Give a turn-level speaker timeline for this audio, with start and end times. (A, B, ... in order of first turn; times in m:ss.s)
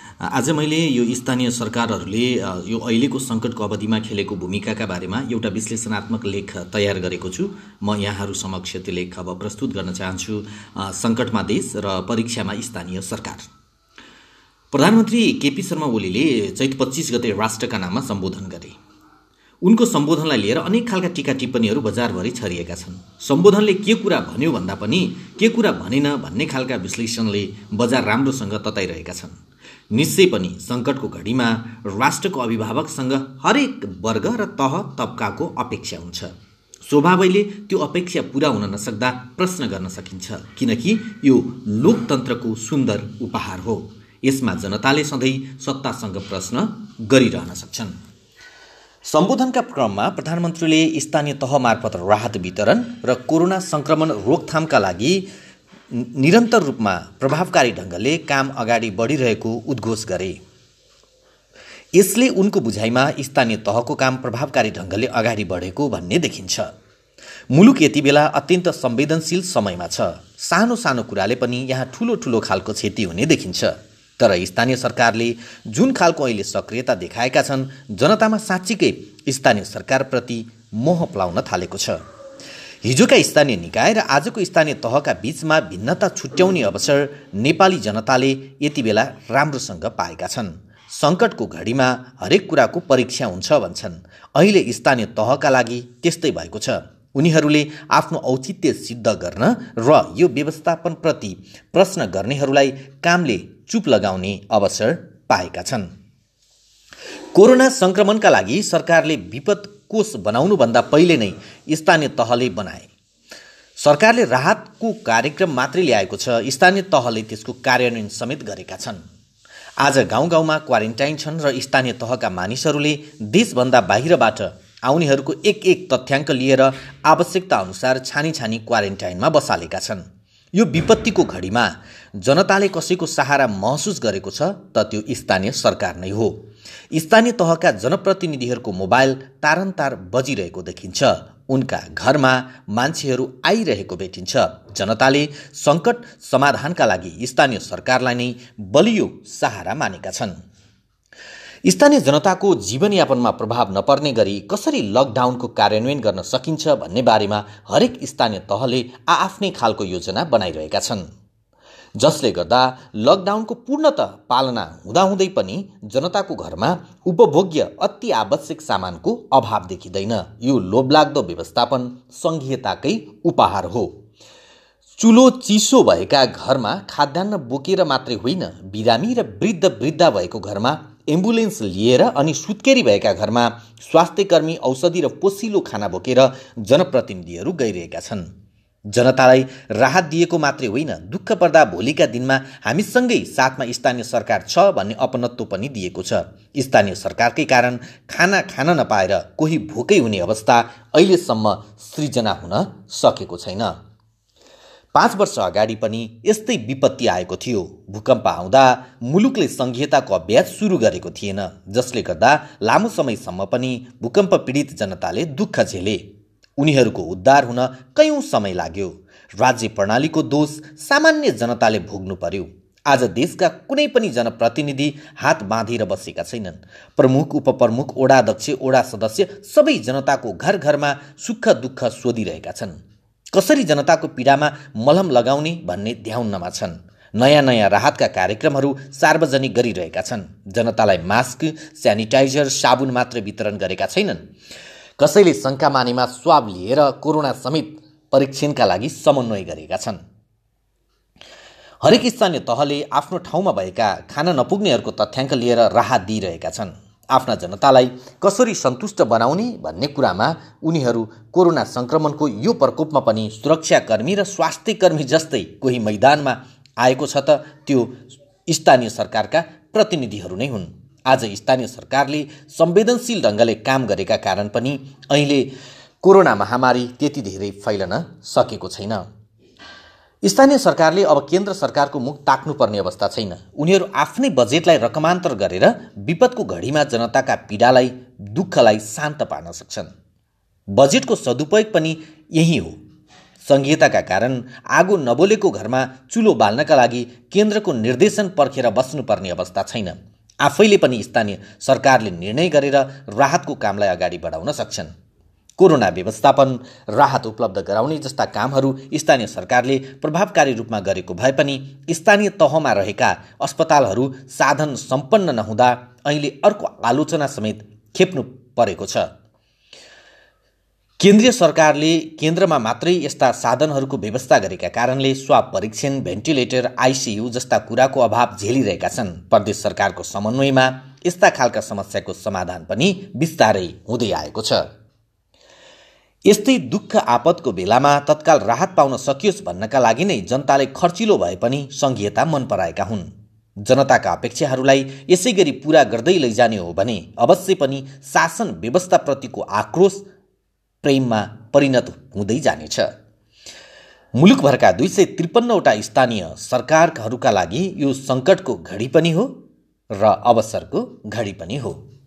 0:00.2-0:13.5 A
0:14.7-0:18.8 A
0:19.6-0:29.4 A
0:29.9-0:36.3 A
0:36.9-0:48.0 A
0:49.1-0:55.3 A
0:55.9-1:00.4 A
1:01.9-1:06.7 A
1:07.5-1:22.0 A
1:22.8-1:45.9 A
1:47.3-1:52.9 A
1:53.8-1:59.0 A
1:59.8-2:16.4 A
2:16.9-2:30.4 A
2:31.7-2:41.0 A
2:42.0-2:53.9 A
2:55.0-3:08.3 A
3:08.9-3:23.7 A
3:24.9-3:36.0 A
3:36.6-3:52.8 A
3:53.3-4:04.3 A
4:05.0-4:10.0 A
4:11.8-4:35.5 A
4:36.0-4:39.0 A
4:40.2-4:49.9 A
4:50.7-4:52.7 A
4:53.4-5:04.9 A
5:05.6-5:19.1 A
5:21.0-5:34.6 A
5:36.3-5:43.1 A
5:43.6-5:50.0 A
5:50.8-5:52.9 A
5:54.2-5:59.3 A
6:00.0-6:01.8 A